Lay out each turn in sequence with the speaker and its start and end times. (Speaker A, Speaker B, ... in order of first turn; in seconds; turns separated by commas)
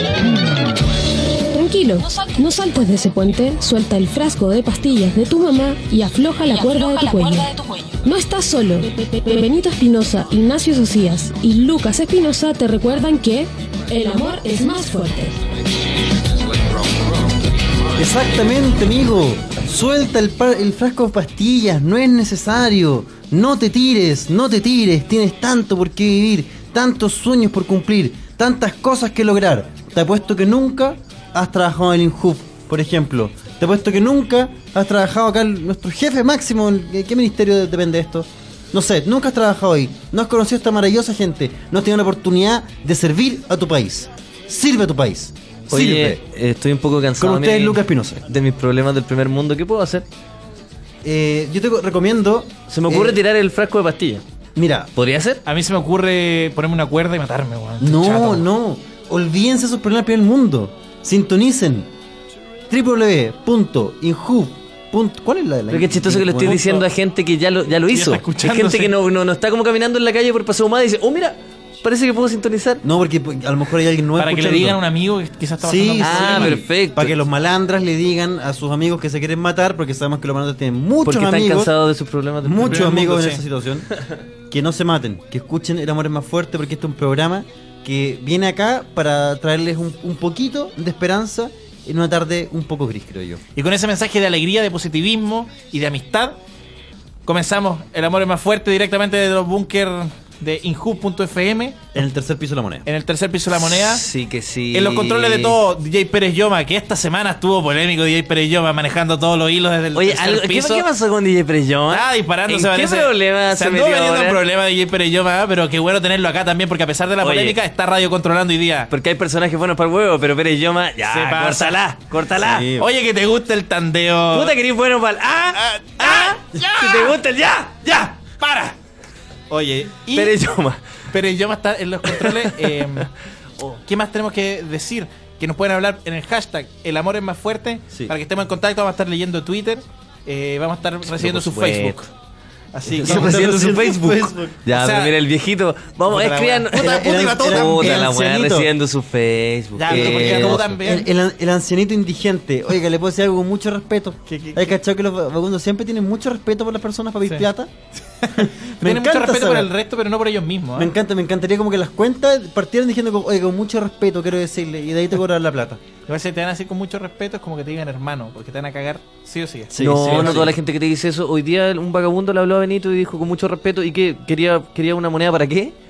Speaker A: 1.5-15.4, Speaker B: 18.0-46.2, Speaker C: 45.7-50.0, Speaker B: 47.2-48.2, Speaker B: 51.0-53.2, Speaker C: 52.7-54.2, Speaker B: 54.5-54.9, Speaker C: 54.9-55.4, Speaker D: 55.5-58.5, Speaker B: 57.8-61.9, Speaker B: 62.7-66.8, Speaker C: 65.7-72.8, Speaker D: 67.9-68.9, Speaker B: 72.8-74.8, Speaker D: 74.2-76.6, Speaker B: 75.6-81.7, Speaker C: 76.0-77.1, Speaker C: 81.0-82.9, Speaker B: 82.4-83.9, Speaker D: 82.6-83.4, Speaker B: 84.5-93.4, Speaker D: 93.5-96.4, Speaker D: 97.2-101.9, Speaker B: 101.9-102.8, Speaker D: 102.8-104.0, Speaker C: 103.5-105.5, Speaker D: 104.7-110.8, Speaker C: 109.9-114.4, Speaker D: 111.9-118.9, Speaker C: 117.2-117.6, Speaker C: 118.9-122.7, Speaker D: 121.0-122.0, Speaker B: 122.4-122.9, Speaker D: 122.8-124.6, Speaker C: 124.3-128.0, Speaker D: 125.5-127.1, Speaker D: 127.9-128.8, Speaker D: 129.5-130.3, Speaker C: 130.1-130.8, Speaker D: 131.1-133.1, Speaker C: 132.1-132.5, Speaker D: 133.6-142.1, Speaker C: 141.1-142.0, Speaker D: 142.7-143.5, Speaker C: 142.9-150.7, Speaker B: 143.0-144.6, Speaker D: 144.7-145.1, Speaker D: 146.1-148.0, Speaker B: 146.7-148.7, Speaker D: 149.8-151.1, Speaker B: 149.9-157.7, Speaker D: 154.3-154.6, Speaker D: 158.2-160.9, Speaker B: 158.4-159.7, Speaker B: 160.8-165.8, Speaker D: 166.1-170.5, Speaker B: 169.7-170.5, Speaker C: 169.8-175.8